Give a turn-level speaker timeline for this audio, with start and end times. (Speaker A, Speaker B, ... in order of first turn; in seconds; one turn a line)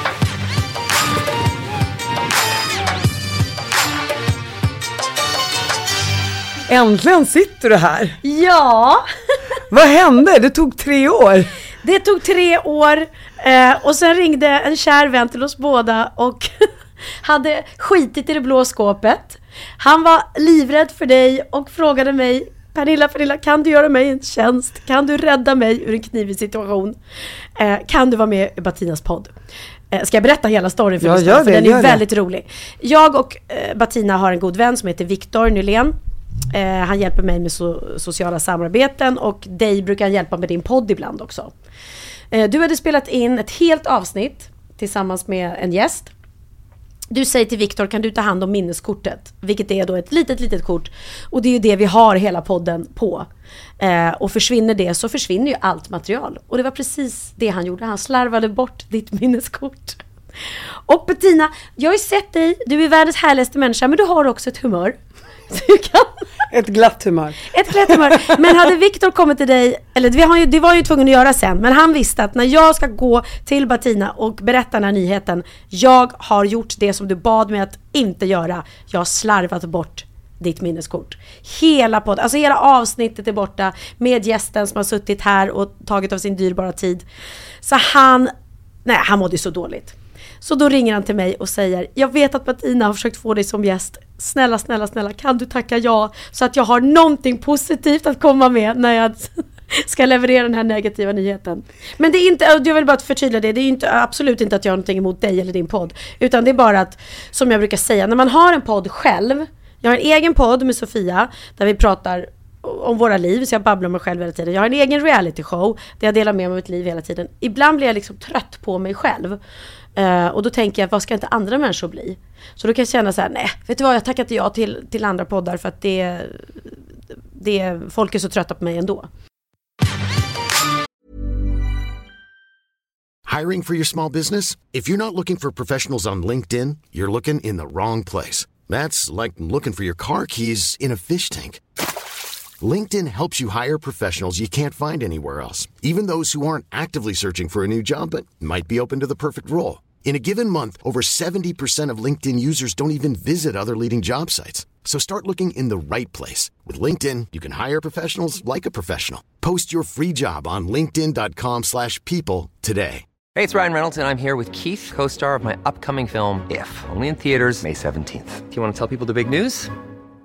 Speaker A: 6.7-8.2
Speaker B: 8.2-9.0
Speaker A: 9.7-11.5
Speaker B: 11.8-27.0
Speaker B: 27.6-29.3
Speaker B: 29.9-35.9
Speaker A: 31.0-32.0
Speaker B: 36.5-41.5
Speaker B: 42.3-46.1
Speaker B: 47.1-53.3
Speaker B: 53.8-65.0
Speaker B: 65.5-66.2
Speaker A: 66.5-68.6
Speaker B: 67.5-87.0
Speaker B: 87.6-88.3
Speaker B: 88.8-119.4
Speaker B: 120.0-126.8
Speaker B: 127.3-129.1
Speaker C: 133.2-141.6
Speaker C: 142.6-163.0
Speaker D: 163.3-169.7